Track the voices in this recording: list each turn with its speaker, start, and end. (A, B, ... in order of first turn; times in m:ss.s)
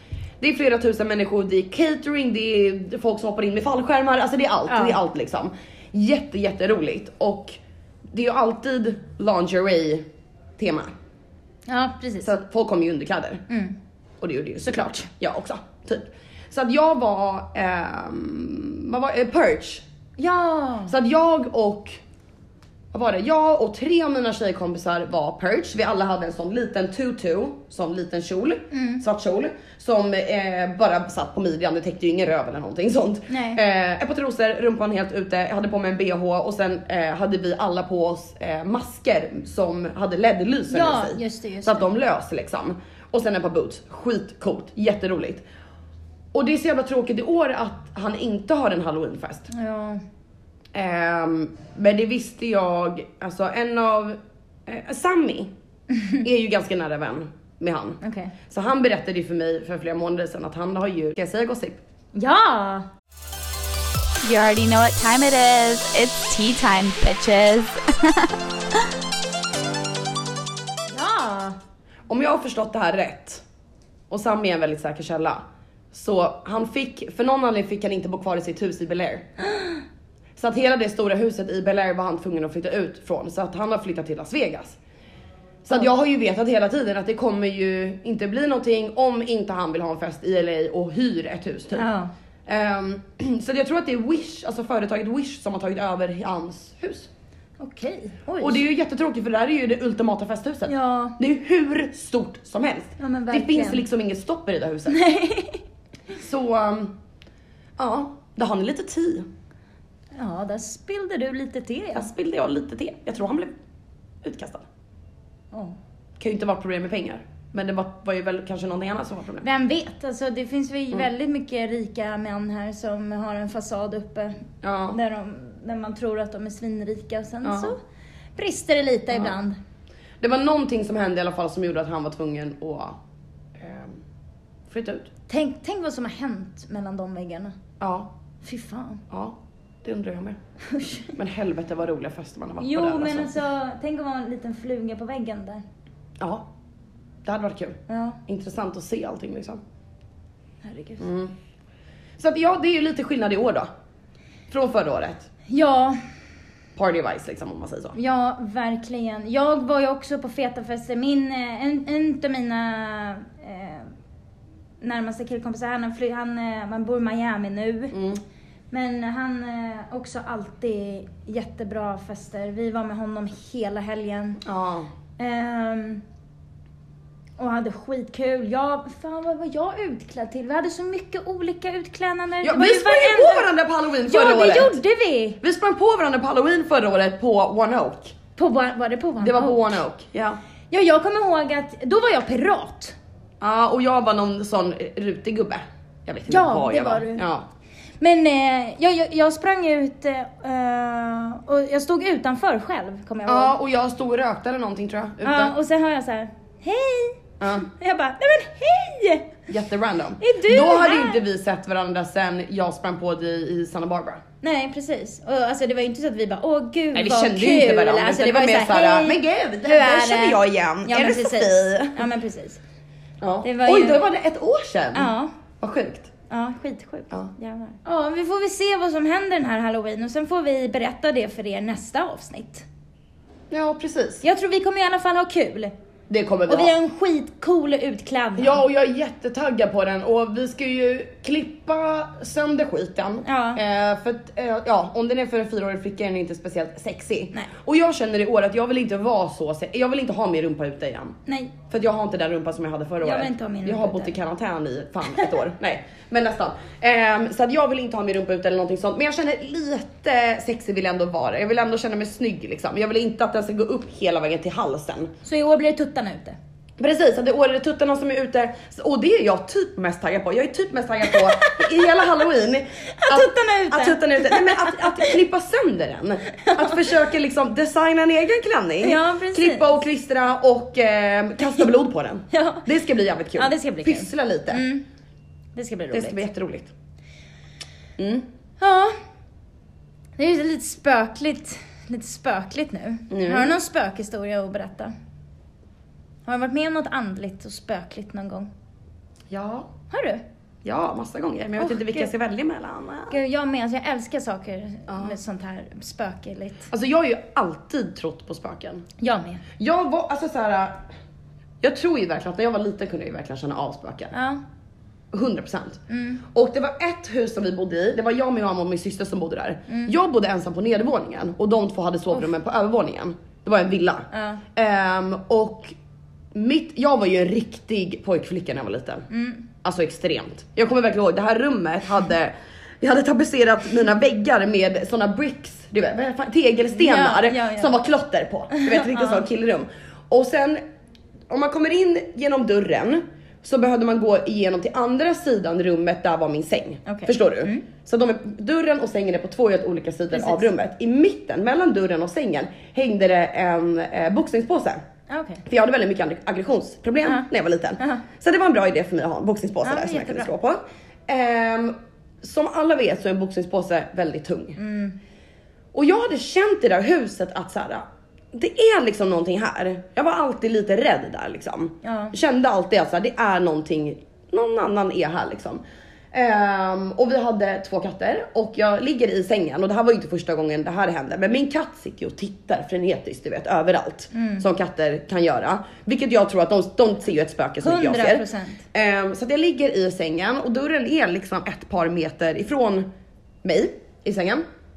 0:00.4-0:07.6 A
0:04.7-0:05.0 B
0:08.1-0:10.0 A
0:10.6-0:10.9 A
0:11.6-0:12.3 B
0:12.2-0:13.4 A
0:13.5-0:13.8 B
0:14.2-0:19.8 A
0:20.2-0:20.9 B
0:20.9-0:22.0 A
0:22.9-0:45.4 A
0:28.7-0:29.0 B
0:33.3-0:33.6 B
0:40.7-0:41.9 B
0:46.3-0:49.5 A
0:49.5-0:50.0 B
0:50.7-0:55.5 A
0:56.2-1:01.8 A
0:58.0-0:58.3 B
1:02.1-1:02.9 B
1:04.2-1:08.3 C
1:10.9-1:11.6 B
1:12.1-1:13.4 A
1:14.1-1:19.3 A
1:20.4-1:24.8 A
1:25.6-1:31.8 A
1:31.7-1:32.1 B
1:32.4-1:37.1 A
1:37.6-1:38.6 B
1:38.4-1:45.0 A
1:40.7-1:41.2 B
1:43.0-1:43.8 B
1:44.9-1:45.6 B
1:46.2-1:46.9 A
1:47.8-1:49.3 A
1:50.1-1:52.1 B
1:51.9-1:53.5 A
1:54.2-1:54.7 A
1:55.5-1:55.8 B
1:56.2-1:59.4 A
1:59.4-2:04.4 B
2:04.6-2:05.0 A
2:04.9-2:07.8 B
2:07.4-2:07.7 A
2:08.4-2:09.6 B
2:10.2-2:13.0 A
2:13.6-2:14.0 A
2:14.7-2:15.1 A
2:15.3-2:17.6 B
2:17.8-2:18.1 A
2:18.4-2:19.0 B
2:19.1-2:20.4 A
2:20.6-2:21.1 B
2:21.1-2:23.4 A
2:22.6-2:25.6 B
2:26.2-2:26.4 A
2:27.2-2:29.6 A
2:27.9-2:28.2 B
2:30.6-2:31.0 B
2:31.0-2:31.3 A
2:32.2-2:33.7 A
2:34.5-2:35.3 A
2:35.5-2:36.0 B
2:36.8-2:38.0 A
2:37.9-2:43.9 B
2:44.8-2:47.9 B
2:47.9-2:48.2 A
2:48.7-2:54.4 B
2:54.4-2:54.9 A
2:55.2-2:56.0 B
2:57.4-3:03.5 B
3:02.4-3:04.8 A
3:04.0-3:05.4 B
3:05.4-3:08.1 A
3:08.4-3:09.8 B
3:09.2-3:10.4 A
3:10.7-3:13.0 B
3:13.4-3:17.4 A
3:16.3-3:17.2 B
3:18.0-3:23.5 B
3:23.2-3:25.5 A
3:25.2-3:29.3 B
3:27.4-3:27.7 A
3:29.5-3:34.2 A
3:30.2-3:31.2 B
3:34.4-3:42.6 B
3:36.9-3:42.0 A
3:43.2-3:45.1 A
3:43.4-3:44.0 B
3:44.9-3:45.3 B
3:45.6-3:46.1 A
3:46.3-3:52.6 B
3:53.5-3:54.2 A
3:54.2-3:55.7 B
3:56.1-3:56.7 A
3:56.5-3:58.6 B
3:58.4-4:11.2 A
4:03.2-4:03.6 B
4:11.2-4:11.5 B
4:11.7-4:25.1 A
4:13.0-4:14.2 B
4:25.2-4:26.4 B
4:26.8-4:44.6 A
4:31.1-4:31.7 B
4:33.0-4:35.1 B
4:36.4-4:36.9 B
4:38.8-4:39.8 B
4:42.3-4:42.7 B
4:43.3-4:44.8 B
4:45.5-4:46.2 B
4:45.9-4:46.7 A
4:48.0-4:48.2 A
4:48.6-4:48.9 B
4:50.2-4:54.9 B
4:53.1-4:53.6 A
4:56.2-4:58.5 B
4:59.3-4:59.7 A
4:59.9-5:00.2 B
5:00.6-5:03.2 A
5:01.6-5:02.1 B
5:03.1-5:06.7 B
5:04.9-5:05.2 A
5:06.7-5:08.8 A
5:09.0-5:09.4 B
5:09.6-5:10.9 A
5:11.6-5:14.1 A
5:14.1-5:14.4 B
5:15.1-5:25.7 A
5:15.9-5:16.2 B
5:24.1-5:24.4 B
5:26.3-5:29.1 A
5:29.1-5:29.4 B
5:29.6-5:40.6 A
5:36.7-5:37.7 B
5:38.5-5:39.2 B
5:41.3-5:54.8 A
5:46.8-5:47.6 B
5:50.1-5:50.4 B
5:55.1-5:55.4 B
5:55.4-6:04.6 A
5:57.8-5:58.0 B
5:59.6-6:00.3 B
6:04.6-6:05.0 B
6:05.7-6:15.6 A
6:11.8-6:12.1 B
6:16.1-6:32.8 A
6:24.1-6:24.4 B
6:27.6-6:28.6 B
6:33.4-6:34.4 A